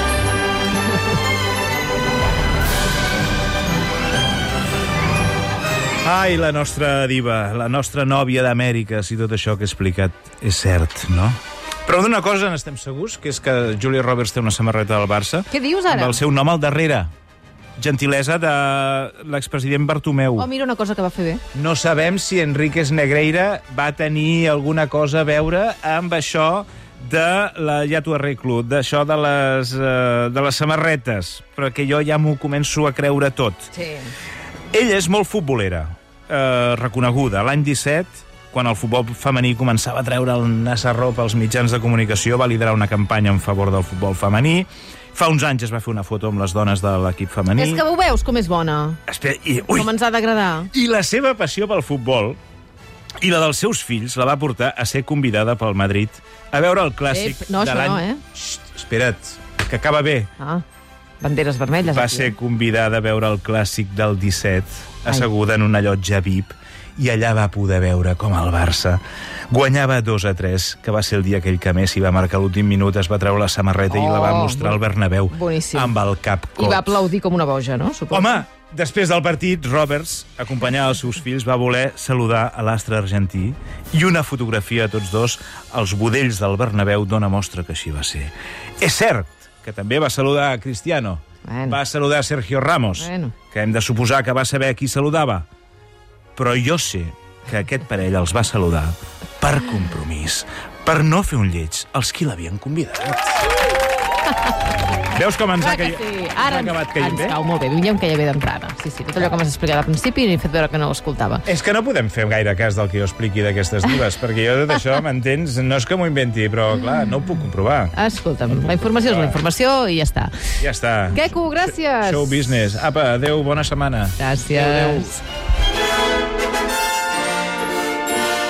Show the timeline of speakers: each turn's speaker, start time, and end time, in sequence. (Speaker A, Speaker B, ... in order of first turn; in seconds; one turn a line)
Speaker A: 6.0-17.1
Speaker B: 15.5-16.2
Speaker A: 17.8-20.5
Speaker B: 20.4-21.4
Speaker A: 21.5-33.7
Speaker B: 33.7-34.1
Speaker A: 34.7-47.8
Speaker B: 47.5-49.0
Speaker A: 49.1-49.9
Speaker B: 49.7-50.7
Speaker A: 50.7-52.4
Speaker A: 53.2-60.3
Speaker B: 57.1-58.2
Speaker B: 60.4-60.6
Speaker B: 61.2-62.3
Speaker A: 61.8-76.9
Speaker B: 73.9-74.8
Speaker B: 75.3-76.0
Speaker B: 76.6-78.4
Speaker A: 78.1-95.5
Speaker B: 91.5-91.8
Speaker B: 93.0-93.3
Speaker A: 96.4-103.5
Speaker A: 105.1-107.4
Speaker B: 105.6-111.5
Speaker A: 111.5-118.0
Speaker B: 117.9-120.3
Speaker A: 119.0-119.4
Speaker A: 120.6-121.2
Speaker B: 121.1-122.4
Speaker A: 122.0-124.2
Speaker B: 124.2-125.2